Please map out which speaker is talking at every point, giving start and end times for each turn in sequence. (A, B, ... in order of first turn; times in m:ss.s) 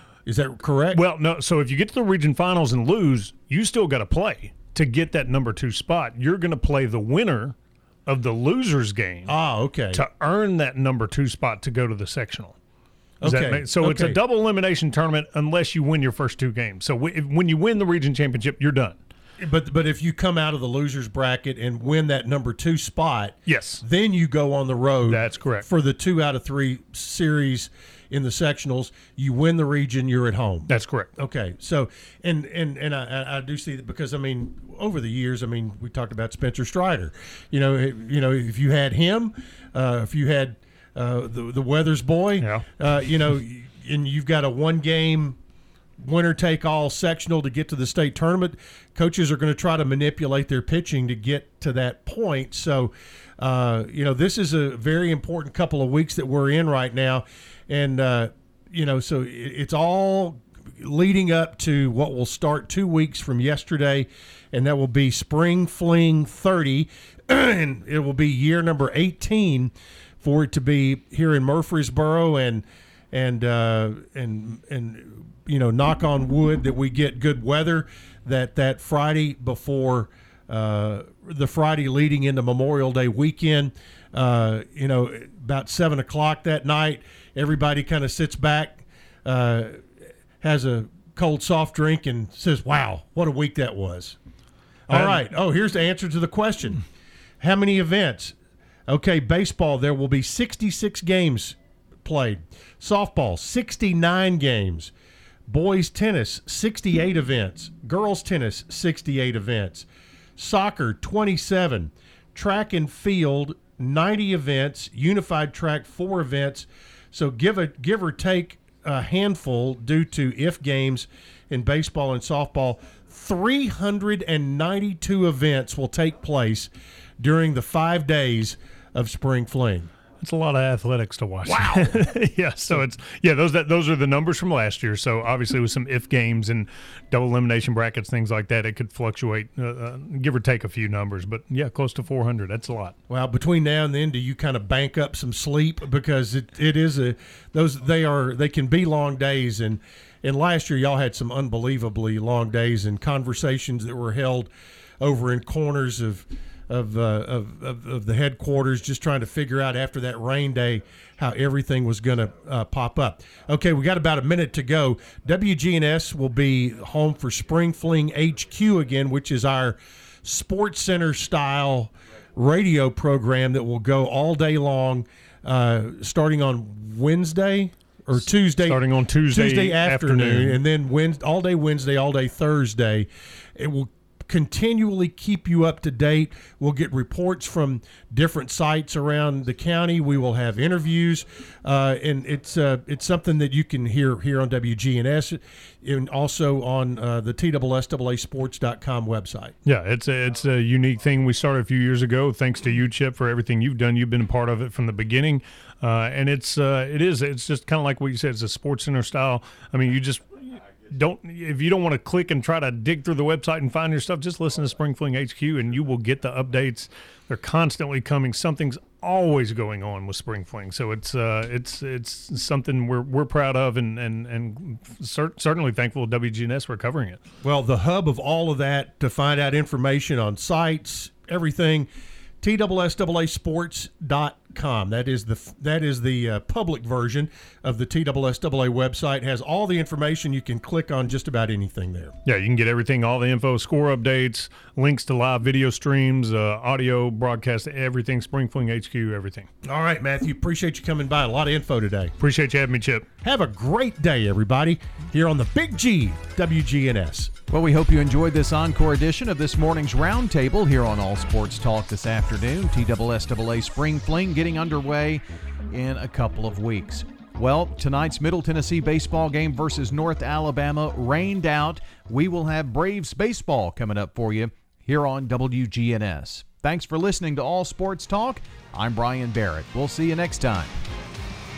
0:00.2-0:01.0 A
0:00.9-0:07.5 B
0:08.0-0:09.3 B
0:09.3-0:10.0 A
0:09.9-0:12.6 B
0:13.2-0:14.2 A
0:13.2-0:19.0 B
0:19.4-0:45.4 A
0:23.5-0:23.8 B
0:25.0-0:25.7 B
0:30.7-0:31.1 B
0:42.4-0:42.6 B
0:46.0-1:29.8 A
1:30.4-1:34.2 A
1:34.9-1:35.2 B
1:34.9-1:36.8 A
1:37.4-1:38.3 A
1:38.9-1:44.9 A
1:45.5-1:49.8 A
1:50.4-2:09.9 A
2:10.2-2:22.9 B
2:11.5-2:12.0 A
2:23.1-3:19.5 A
2:58.2-3:00.6 B
3:19.6-3:47.2 B
3:47.4-3:51.9 A
3:52.4-4:02.1 A
4:02.2-4:09.5 B
4:09.6-4:12.1 A
4:12.2-4:13.0 B
4:13.2-4:17.3 A
4:17.5-4:40.7 C